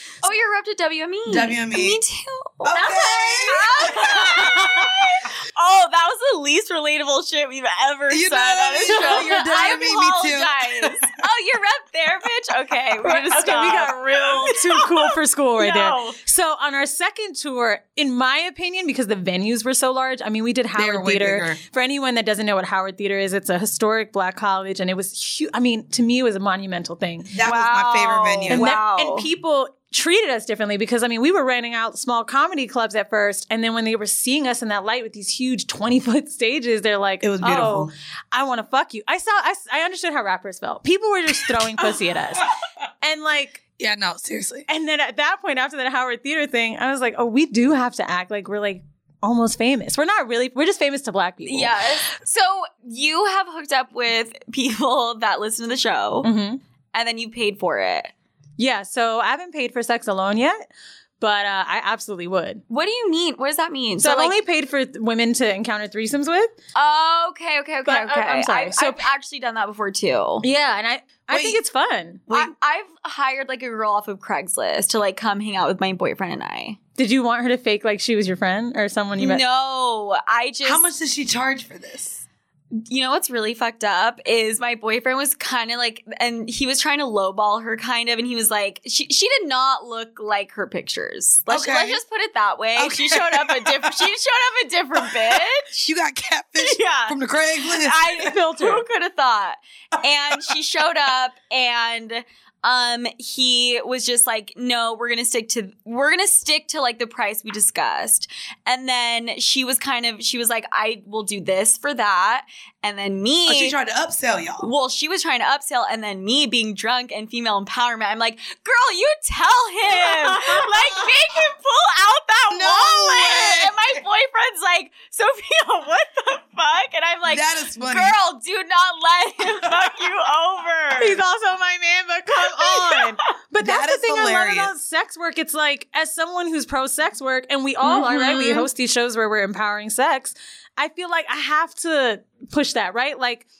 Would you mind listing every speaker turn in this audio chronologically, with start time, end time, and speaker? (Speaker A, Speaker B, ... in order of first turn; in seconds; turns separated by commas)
Speaker A: 0.2-16.1, Speaker B: 1.3-2.0, Speaker B: 2.6-4.9, Speaker C: 4.4-4.7, Speaker B: 8.1-11.1, Speaker C: 8.9-9.5, Speaker C: 13.0-27.3, Speaker B: 20.7-21.6, Speaker B: 27.3-28.7, Speaker A: 27.4-29.2, Speaker C: 28.5-43.6, Speaker B: 37.2-37.9, Speaker B: 43.8-44.6, Speaker C: 44.7-51.9, Speaker A: 51.5-56.3, Speaker C: 56.2-56.6, Speaker A: 56.9-58.1, Speaker C: 58.6-60.6, Speaker C: 61.2-62.6, Speaker A: 62.7-64.3, Speaker C: 64.0-66.5, Speaker A: 66.7-70.4, Speaker C: 67.8-69.0, Speaker C: 70.4-72.3, Speaker B: 71.3-71.6, Speaker A: 72.3-76.8, Speaker C: 77.0-79.4, Speaker A: 79.2-80.8, Speaker B: 80.6-82.2, Speaker A: 82.7-95.9, Speaker B: 91.5-92.0, Speaker B: 92.8-94.1, Speaker B: 94.9-98.3, Speaker A: 96.6-113.8, Speaker C: 98.3-98.8, Speaker B: 113.5-114.7, Speaker A: 114.6-131.2, Speaker B: 122.5-124.0, Speaker B: 127.2-128.2, Speaker C: 131.0-143.4, Speaker A: 132.6-133.2, Speaker B: 133.6-134.7, Speaker A: 137.8-138.7